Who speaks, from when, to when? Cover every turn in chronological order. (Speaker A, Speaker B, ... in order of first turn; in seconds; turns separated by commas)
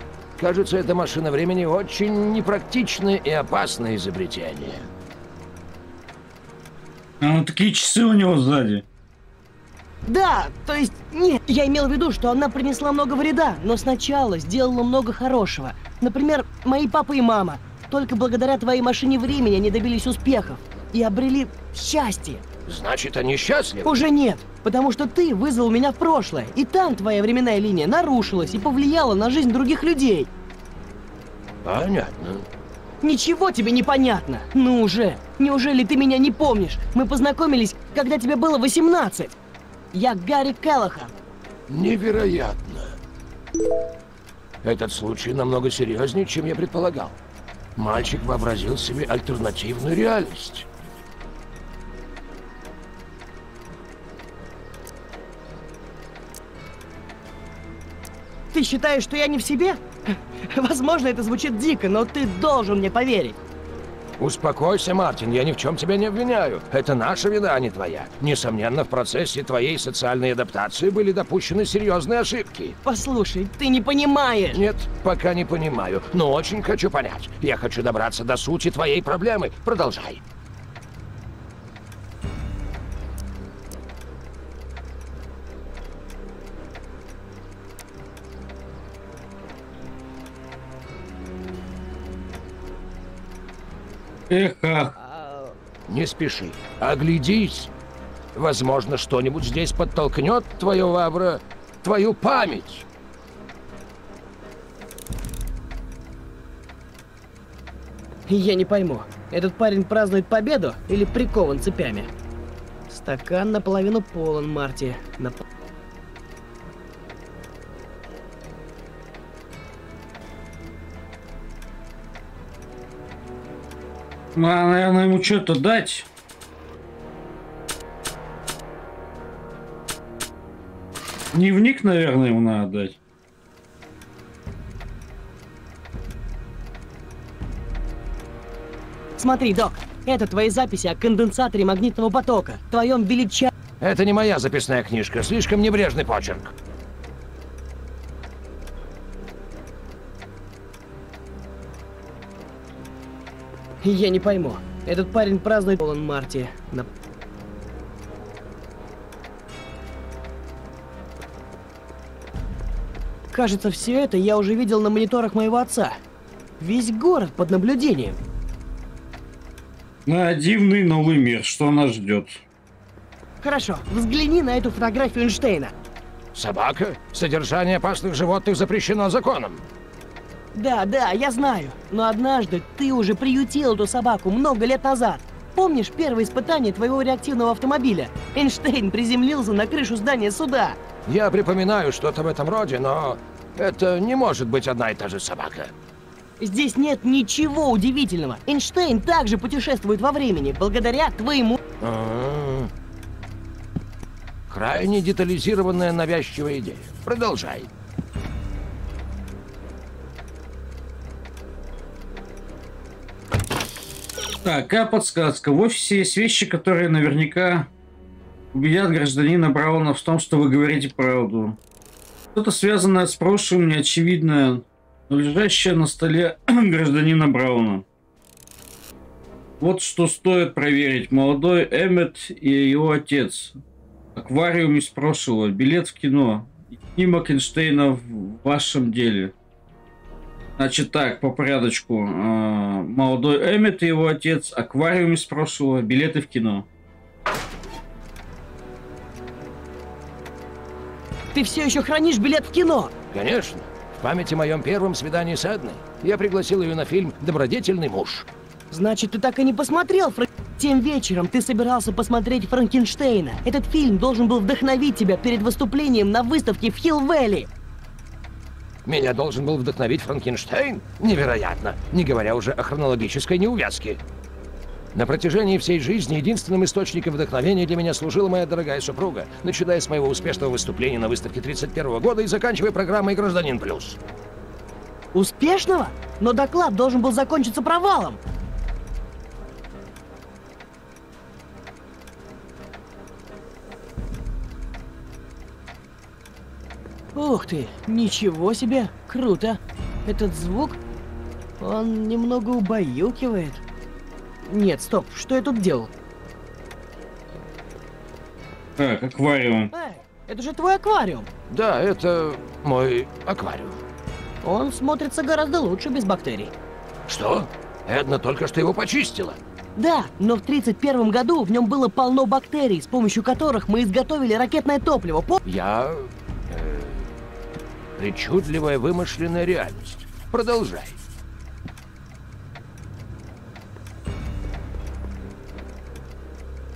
Speaker A: 0.4-4.9, Speaker B: 7.2-8.8, Speaker C: 10.1-22.4, Speaker A: 22.7-23.9, Speaker C: 23.8-30.3, Speaker A: 31.6-32.5, Speaker C: 33.0-39.3, Speaker C: 39.9-41.1, Speaker A: 41.7-43.0, Speaker A: 44.6-47.1, Speaker A: 47.8-50.6, Speaker C: 58.5-63.4, Speaker A: 64.2-72.8, Speaker C: 72.8-74.6, Speaker A: 74.5-80.2, Speaker B: 94.3-94.9, Speaker C: 95.0-95.5, Speaker A: 95.9-97.7, Speaker A: 98.3-102.8, Speaker C: 108.3-112.1, Speaker C: 112.9-115.4, Speaker B: 124.3-126.1, Speaker B: 131.3-132.9, Speaker C: 139.2-143.5, Speaker A: 143.8-146.5, Speaker C: 153.8-156.9, Speaker C: 163.3-166.0, Speaker C: 166.6-168.2, Speaker B: 170.1-172.4, Speaker C: 173.4-175.7, Speaker A: 176.3-179.6, Speaker C: 180.5-190.8, Speaker A: 191.1-195.7, Speaker C: 196.4-201.6, Speaker A: 201.8-202.7, Speaker A: 204.5-207.7, Speaker B: 214.4-217.7, Speaker B: 218.5-221.6, Speaker B: 222.3-227.8, Speaker B: 229.6-233.6, Speaker B: 234.1-239.3, Speaker B: 240.6-246.7, Speaker C: 251.3-252.9, Speaker A: 253.1-258.3, Speaker C: 258.7-267.5, Speaker A: 268.9-274.0, Speaker A: 274.9-284.0, Speaker C: 285.1-288.2, Speaker C: 297.1-300.8, Speaker C: 301.6-303.6, Speaker C: 304.4-305.9, Speaker B: 308.8-309.7, Speaker C: 309.7-311.3, Speaker A: 311.5-313.8, Speaker C: 314.4-316.5, Speaker A: 317.1-319.4, Speaker C: 319.8-325.4, Speaker A: 325.4-327.1, Speaker A: 328.0-331.0